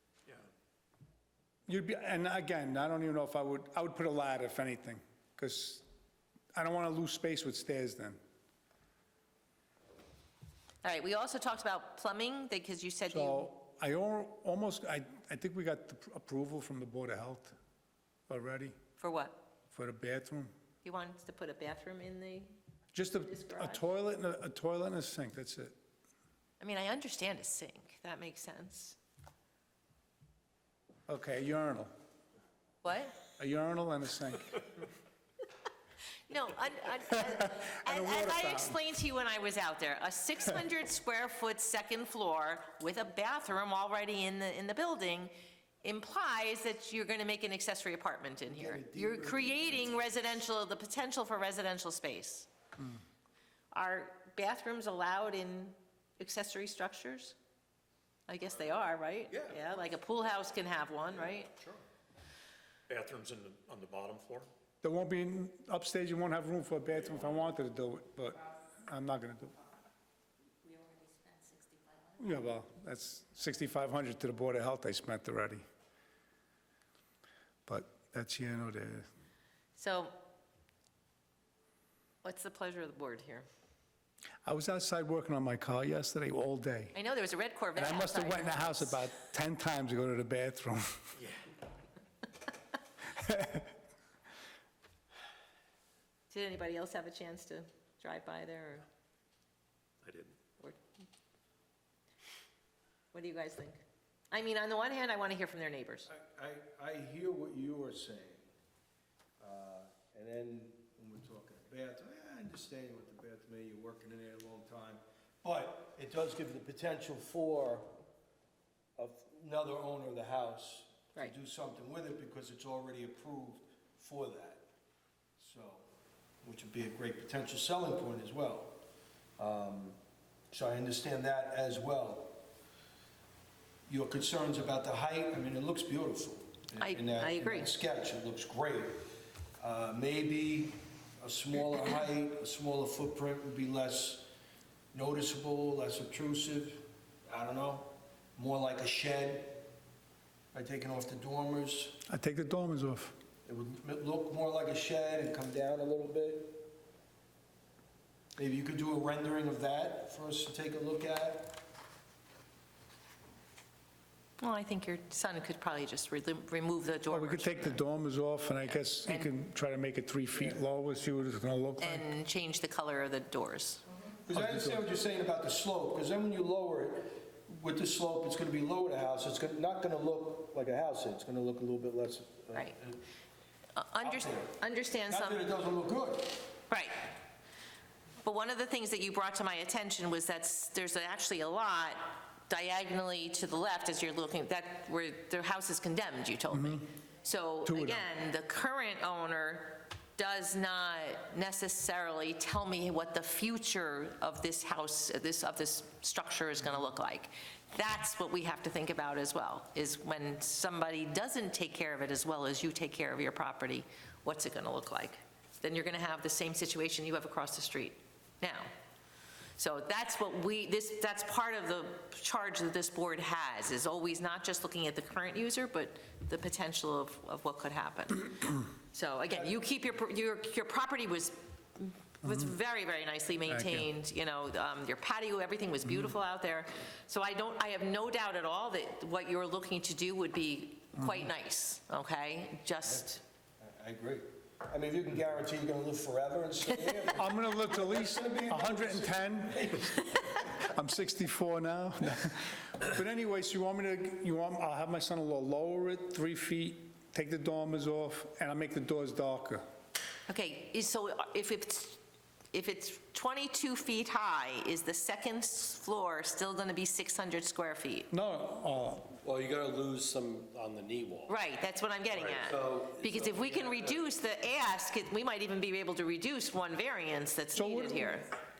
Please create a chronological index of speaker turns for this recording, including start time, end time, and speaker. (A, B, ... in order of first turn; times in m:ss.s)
0:01.7-0:05.8 A
0:06.5-0:08.2 A
0:10.8-0:13.5 B
0:13.1-0:17.6 A
0:18.3-0:18.8 A
0:19.0-0:19.4 B
0:19.7-0:20.5 A
0:20.8-0:22.6 B
0:22.9-0:25.7 A
0:23.1-0:23.8 B
0:26.6-0:29.0 B
0:31.1-0:31.9 A
0:32.8-0:33.2 B
0:33.4-0:34.6 A
0:36.3-0:45.3 B
0:37.6-0:38.8 A
0:45.8-0:52.5 B
0:48.5-0:50.0 C
0:53.7-0:57.3 B
0:58.3-1:01.5 B
1:01.2-1:01.8 D
1:02.9-1:04.5 D
1:04.8-1:09.6 A
1:12.2-1:15.6 A
1:17.7-1:19.1 A
1:19.7-1:20.1 B
1:22.2-1:23.5 B
1:24.4-1:26.9 A
1:26.9-1:29.0 B
1:27.7-1:31.0 A
1:33.2-1:33.7 A
1:36.3-1:38.9 B
1:40.0-1:40.3 D
1:43.1-1:46.1 B
1:46.1-1:48.5 C
1:49.4-1:57.9 C
1:59.0-2:04.6 C
2:05.4-2:05.9 C
2:06.4-2:08.8 C
2:09.4-2:10.0 C
2:10.5-2:12.4 C
2:13.9-2:24.3 C
2:16.8-2:17.7 B
2:24.9-2:29.7 C
2:30.5-2:32.0 C
2:32.1-2:33.2 A
2:33.5-2:36.7 C
2:38.4-2:41.6 C
2:44.4-2:47.8 B
2:47.1-2:52.1 A
2:48.6-2:49.3 B
2:50.3-2:50.6 C
2:51.8-2:53.8 B
2:54.2-3:03.0 C
2:54.3-2:54.8 A
3:03.8-3:05.4 B
3:04.0-3:04.6 C
3:05.1-3:06.5 C
3:06.7-3:07.1 B
3:08.2-3:38.7 B
3:16.5-3:16.8 A
3:17.7-3:18.1 A
3:39.6-4:03.2 B
3:52.2-3:52.5 A
3:53.5-3:53.9 A
4:01.0-4:01.3 A
4:03.6-4:10.2 C
4:07.2-4:09.8 A
4:10.4-4:19.6 A
4:20.3-4:22.0 B
4:22.5-4:28.1 B
4:28.1-4:29.1 A
4:29.2-4:31.4 E
4:31.3-4:38.3 B
4:32.1-4:34.0 E
4:37.5-4:38.2 A